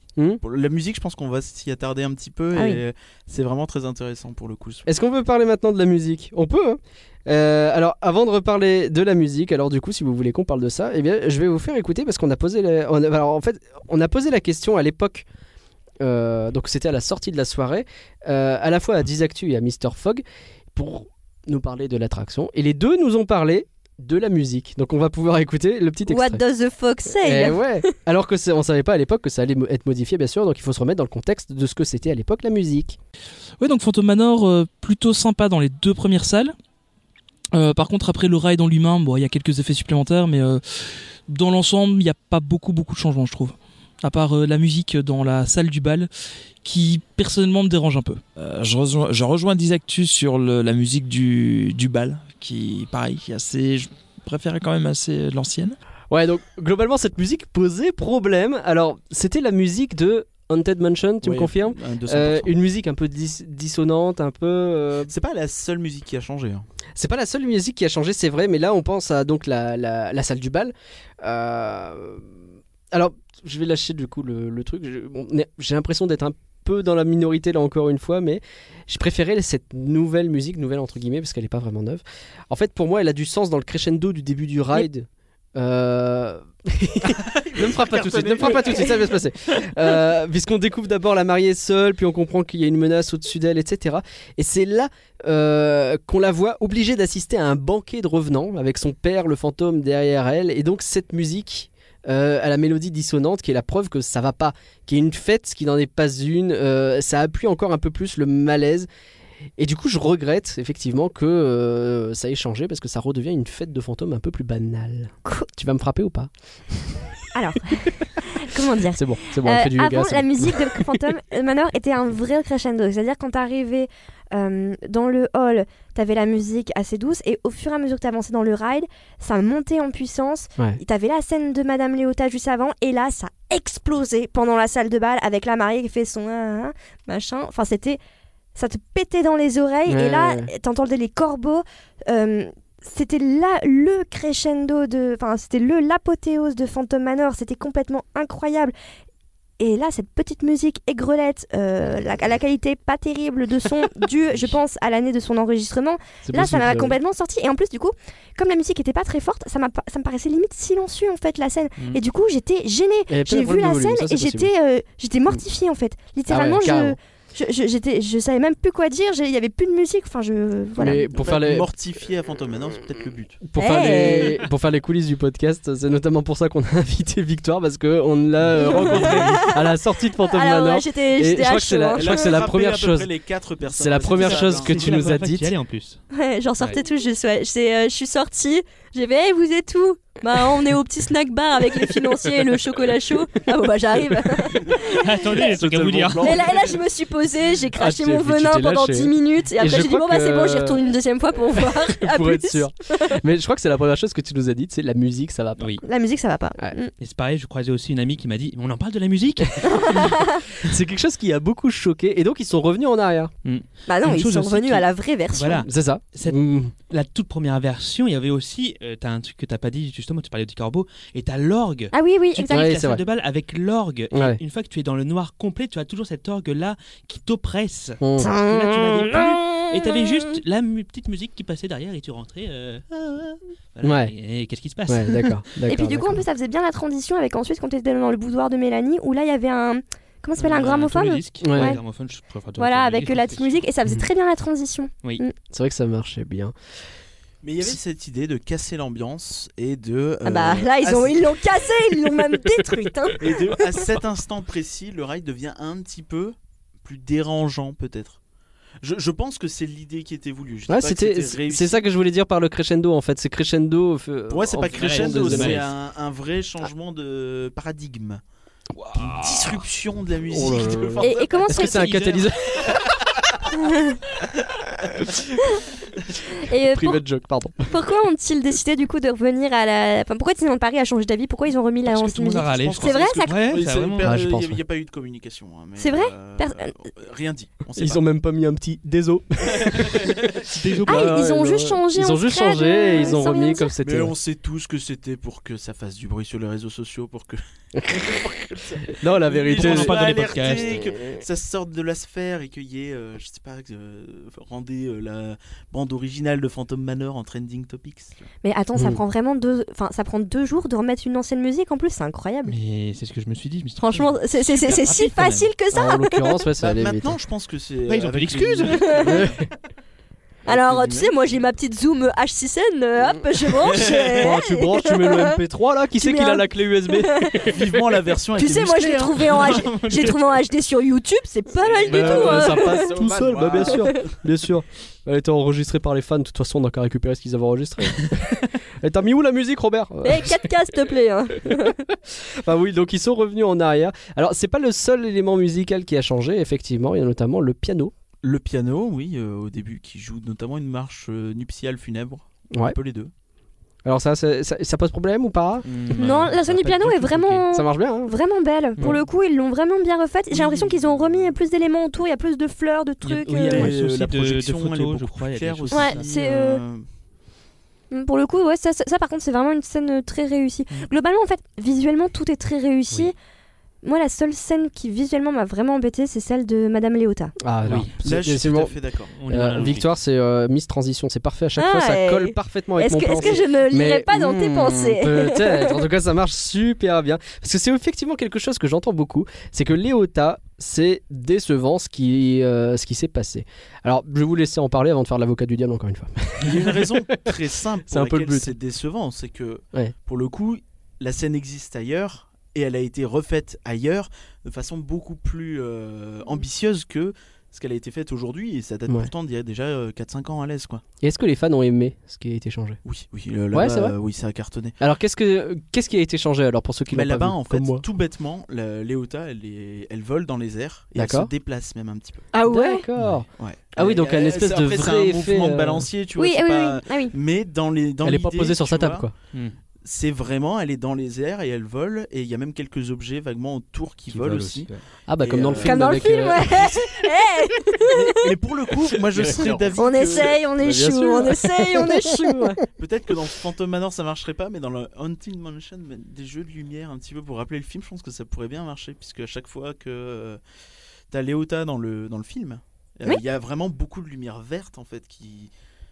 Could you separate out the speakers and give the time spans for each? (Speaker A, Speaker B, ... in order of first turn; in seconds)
Speaker A: 0.4-4.8, 61.2-62.6, 65.1-66.7, 87.2-89.0, 171.1-173.4, 178.6-179.5, 182.0-185.2, 194.6-196.8, 247.4-251.8, 253.2-258.2, 258.8-261.9, 264.3-268.2, 269.0-272.9, 282.3-288.0, 289.5-290.4, 293.8-308.3, 316.6-319.4, 320.5-321.3, 323.6-324.3, 327.4-330.1, 331.6-334.2, 348.2-353.1, 360.3-361.4, 363.5-366.9, 378.0-379.8, 396.4-410.8, 412.9-414.8, 416.9-422.3, 423.4-429.1, 429.8-434.7, 435.2-437.1, 437.8-440.4, 442.8-450.4, 451.1-455.5
Speaker B: 2.5-2.8, 26.1-27.9, 117.3-138.0, 138.6-148.7, 149.6-171.1, 173.6-174.4, 178.6-182.4, 186.1-195.0, 196.2-203.2, 205.8-206.9, 209.7-210.4, 213.9-215.7, 221.9-222.8, 228.2-230.4, 235.7-241.8, 242.6-245.3, 250.2-253.3, 271.0-272.0, 273.5-274.0, 276.4-277.0, 277.7-283.4, 285.8-286.7, 290.9-293.7, 308.4-312.5, 313.8-316.4, 318.7-319.2, 320.5-325.4, 326.0-327.5, 328.4-333.0, 333.7-334.0, 340.0-341.8, 355.9-363.6, 365.7-366.6, 367.9-373.1, 373.8-377.4, 381.6-385.8, 422.3-422.8, 426.2-427.1, 435.6-438.3, 439.8-442.6
Speaker C: 4.9-15.3, 16.0-26.4, 27.2-33.0, 56.1-65.1, 67.0-108.9, 109.6-117.2, 118.5-121.0, 139.9-140.5, 156.2-157.0, 163.1-164.5, 166.3-167.0, 170.8-171.7, 173.4-183.1, 183.7-185.5, 197.8-200.8, 201.5-205.8, 209.6-213.3, 215.7-216.7, 222.5-223.0, 224.1-224.4, 228.0-228.3, 233.8-234.1, 234.9-236.2, 241.4-241.8, 245.5-246.5, 260.7-265.7, 270.3-272.8, 276.6-277.7, 284.0-284.6, 287.8-294.1, 297.7-301.2, 308.8-309.0, 315.7-317.2, 319.1-319.5, 324.1-328.0, 331.9-340.4, 341.5-347.9, 353.9-356.2, 357.5-358.1, 377.4-378.8, 379.3-398.6, 408.9-409.1, 411.0-412.8, 413.5-414.0, 414.8-417.8, 421.0-421.3, 422.4-425.9, 428.0-429.1, 435.1-436.5, 439.1-439.9, 440.6-442.6
Speaker D: 33.6-36.5, 37.5-46.1, 46.6-48.2
Speaker E: 48.4-55.8
Speaker F: 184.0-186.0, 194.7-196.6, 205.6-205.8, 207.0-210.7, 213.4-235.3, 240.4-244.0, 264.7-265.7, 268.7-269.6, 281.9-284.2, 290.4-291.2, 299.5-300.8, 312.4-315.5, 317.9-319.3, 355.6-357.4, 363.0-366.0, 377.6-377.9, 379.1-379.9, 434.1-434.8